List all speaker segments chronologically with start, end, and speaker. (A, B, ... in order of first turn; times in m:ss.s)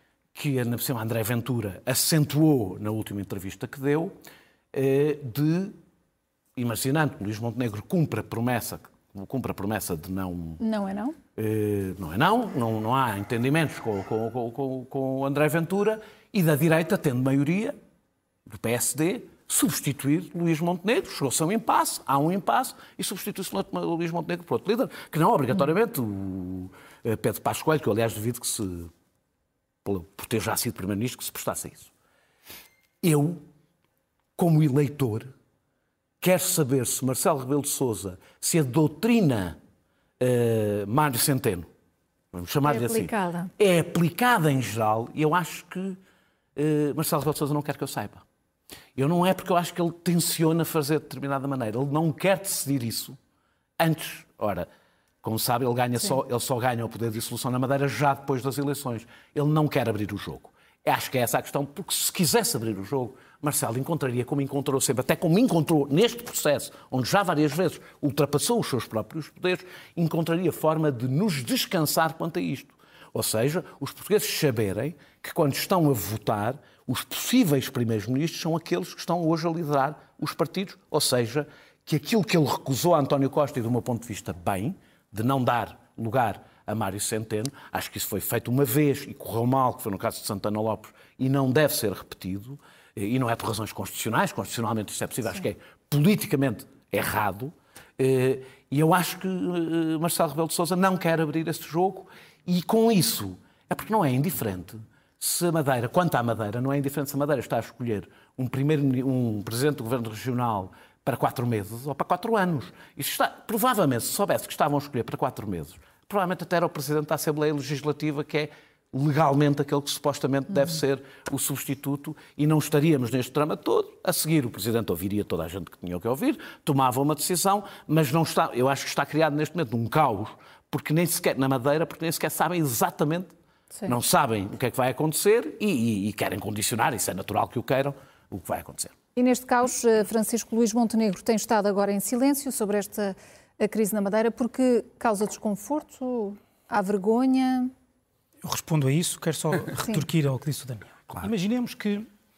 0:00.3-0:04.1 A
0:04.7-0:05.8 A
0:06.6-0:10.6 A
0:10.6-0:11.2 B
0:11.4-0:17.7 A
0:18.5-0:28.9 A
0:29.8-0:31.9 A
0:33.0-0:33.4 A
0:34.4-0:35.3 A
0:36.2-0:39.6 A
0:40.2-0:41.7 A
0:42.3-0:46.0 A
0:42.6-0:43.5 B
0:46.6-0:48.2 A
0:49.0-0:53.2 A
0:53.8-0:54.7 A
0:55.2-2:13.3 A
2:13.8-2:18.9 A
2:19.2-2:27.7 B
2:28.4-2:32.1 C